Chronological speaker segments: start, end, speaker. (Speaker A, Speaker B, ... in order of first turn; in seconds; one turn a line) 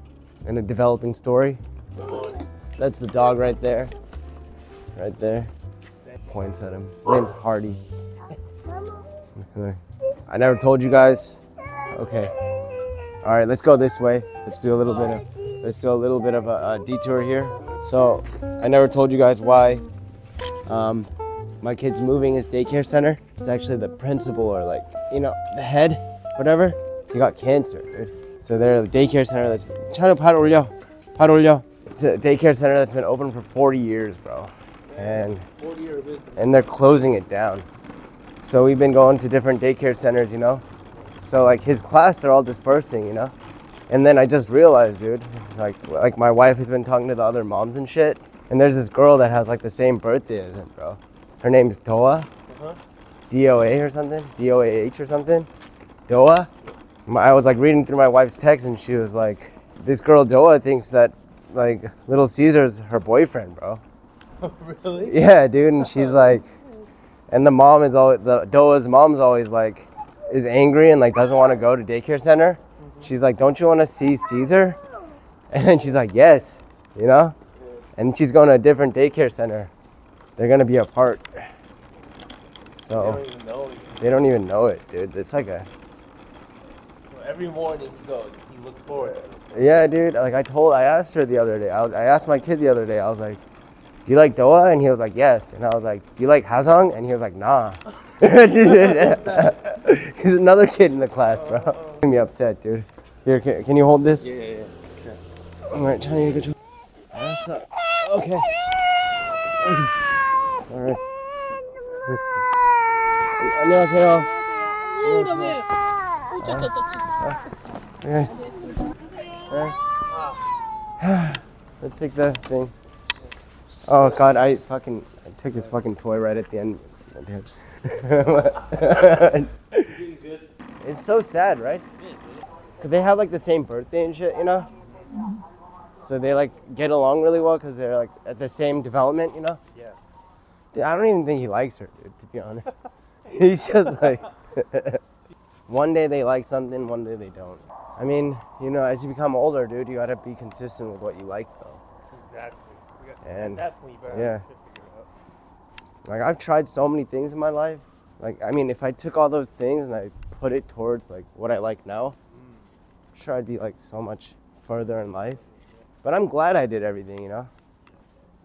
Speaker A: 0.4-1.6
Speaker B: 2.0-2.4
Speaker A: 2.8-3.9
Speaker A: 5.0-5.5
Speaker A: 6.2-7.8
Speaker A: 9.3-12.3
Speaker A: 13.2-19.9
Speaker A: 20.7-21.1
Speaker A: 21.6-35.5
Speaker B: 34.9-36.7
Speaker A: 36.4-37.7
Speaker A: 38.4-40.6
Speaker A: 41.2-43.3
Speaker A: 43.9-52.3
Speaker B: 52.5-52.8
Speaker A: 53.3-55.5
Speaker A: 56.1-56.5
Speaker A: 57.1-63.8
Speaker B: 64.4-65.2
Speaker A: 65.0-66.5
Speaker B: 65.8-66.6
Speaker A: 67.3-74.8
Speaker B: 72.8-73.1
Speaker A: 75.5-77.4
Speaker A: 78.0-79.7
Speaker A: 80.4-81.5
Speaker A: 82.8-83.2
Speaker B: 82.9-84.1
Speaker A: 84.0-85.7
Speaker B: 87.1-89.5
Speaker A: 89.5-93.4
Speaker A: 94.1-104.3
Speaker B: 98.5-99.8
Speaker B: 101.4-102.0
Speaker B: 104.2-105.2
Speaker A: 105.7-106.6
Speaker A: 107.1-108.8
Speaker A: 109.6-110.0
Speaker A: 110.7-111.0
Speaker A: 112.1-112.3
Speaker A: 113.3-115.7
Speaker A: 116.3-117.5
Speaker A: 118.0-118.6
Speaker A: 119.5-119.8
Speaker B: 120.1-120.4
Speaker A: 121.0-122.8
Speaker A: 123.9-129.9
Speaker B: 129.8-130.5
Speaker A: 130.8-131.8
Speaker B: 131.9-132.7
Speaker A: 132.8-134.7
Speaker B: 134.8-135.1
Speaker A: 136.0-139.6
Speaker B: 139.7-140.0
Speaker A: 140.7-142.7
Speaker A: 143.3-145.0
Speaker A: 145.7-151.8
Speaker B: 152.1-155.1
Speaker A: 153.2-154.4
Speaker A: 156.1-162.2
Speaker B: 162.3-162.8
Speaker A: 163.1-165.4
Speaker B: 165.4-165.9
Speaker A: 166.0-167.5